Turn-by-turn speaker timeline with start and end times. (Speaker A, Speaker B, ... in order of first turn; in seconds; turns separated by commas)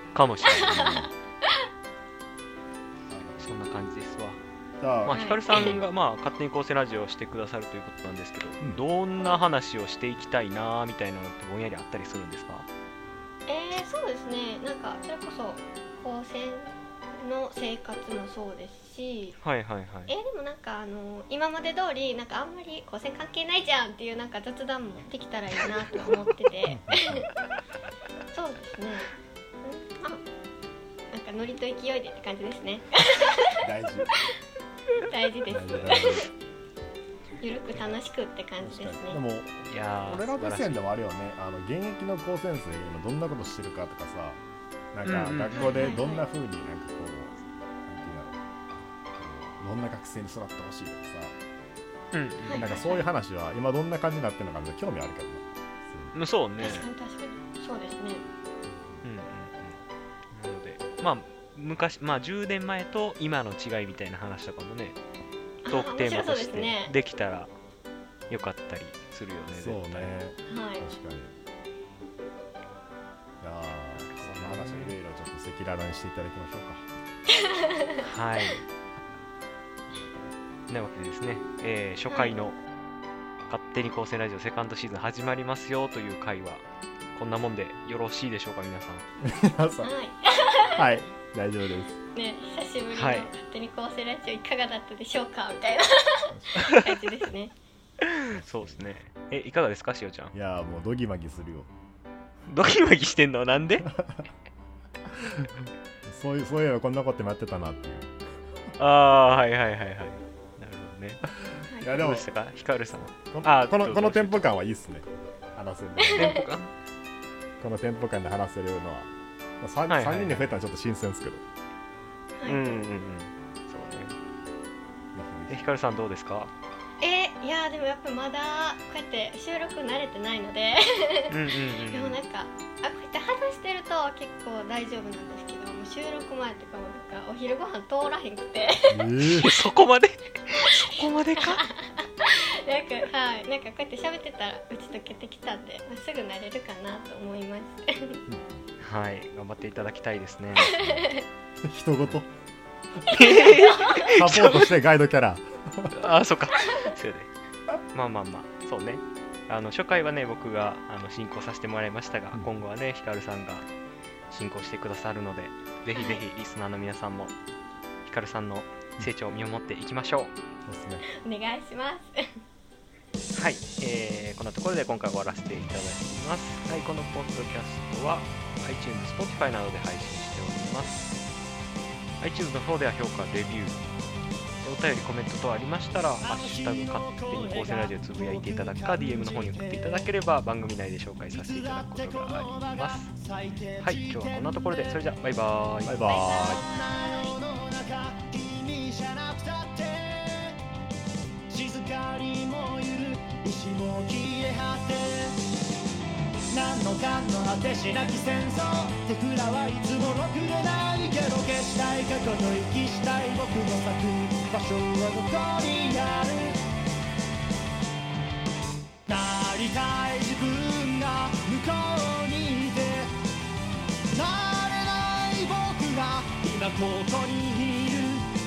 Speaker A: 0.1-1.1, Speaker B: 0.5-1.1, Speaker C: 3.1-3.5, Speaker A: 3.4-4.4, Speaker C: 4.8-5.2, Speaker A: 5.0-12.7, Speaker B: 5.1-5.8, Speaker B: 13.5-19.4, Speaker A: 19.4-20.1, Speaker B: 20.1-27.3, Speaker C: 26.6-27.3, Speaker B: 28.3-30.2, Speaker B: 31.1-33.6, Speaker C: 33.6-34.1, Speaker B: 35.0-36.3, Speaker C: 35.5-36.3, Speaker B: 37.4-39.2, Speaker C: 38.6-44.4, Speaker A: 39.6-40.8, Speaker C: 44.9-47.4, Speaker A: 45.0-46.0, Speaker B: 45.5-46.3, Speaker C: 47.9-48.4, Speaker C: 49.1-51.4, Speaker A: 52.1-52.8, Speaker B: 52.4-53.0, Speaker C: 52.5-56.1, Speaker A: 56.1-56.9, Speaker B: 56.6-58.2, Speaker C: 58.8-59.0, Speaker A: 59.0-59.8, Speaker A: 60.3-65.0, Speaker B: 65.6-66.9, Speaker A: 65.7-67.5, Speaker A: 68.3-70.1, Speaker C: 69.5-71.3, Speaker B: 70.5-70.8, Speaker C: 73.4-76.8, Speaker A: 74.0-74.9, Speaker B: 77.3-78.0, Speaker A: 78.0-78.6, Speaker A: 80.7-82.6, Speaker B: 82.1-82.3, Speaker A: 83.4-86.6, Speaker A: 87.1-89.0, Speaker C: 89.2-89.9, Speaker B: 89.8-90.9, Speaker C: 90.8-92.0, Speaker B: 92.1-97.5, Speaker A: 92.9-93.3, Speaker C: 96.3-96.7, Speaker A: 96.5-96.8, Speaker A: 98.2-100.3, Speaker C: 98.3-98.8, Speaker C: 100.3-101.7, Speaker A: 102.5-103.9, Speaker C: 105.3-108.1, Speaker A: 108.8-111.2, Speaker C: 111.7-112.3, Speaker A: 111.8-114.5, Speaker C: 113.3-115.0, Speaker C: 115.5-116.5, Speaker B: 116.1-116.5, Speaker A: 116.1-116.7, Speaker C: 117.6-119.1, Speaker C: 119.6-121.4, Speaker A: 119.9-120.5, Speaker B: 122.4-122.8, Speaker A: 122.4-124.1, Speaker C: 125.1-125.6, Speaker A: 125.5-126.5, Speaker B: 127.0-131.4, Speaker A: 131.3-132.2, Speaker B: 131.9-139.1, Speaker C: 138.9-139.5, Speaker A: 139.2-141.6, Speaker B: 140.9-148.2, Speaker C: 148.3-148.6, Speaker A: 148.8-150.8, Speaker B: 150.7-151.2, Speaker C: 151.6-152.3, Speaker A: 153.1-154.8, Speaker B: 153.1-154.0, Speaker C: 153.1-155.9, Speaker A: 155.9-157.3, Speaker A: 157.9-163.7, Speaker A: 164.3-167.3, Speaker B: 165.9-166.2, Speaker A: 168.0-170.3, Speaker C: 170.7-171.0, Speaker B: 171.2-172.2, Speaker A: 173.3-181.1, Speaker A: 182.2-183.8, Speaker A: 184.6-193.1, Speaker D: 186.2-190.1, Speaker D: 191.3-195.0, Speaker A: 193.8-196.0, Speaker C: 195.8-196.6, Speaker D: 196.0-200.6, Speaker B: 196.2-197.3, Speaker D: 201.5-205.4, Speaker D: 206.5-216.6, Speaker D: 219.1-223.1, Speaker D: 224.1-228.3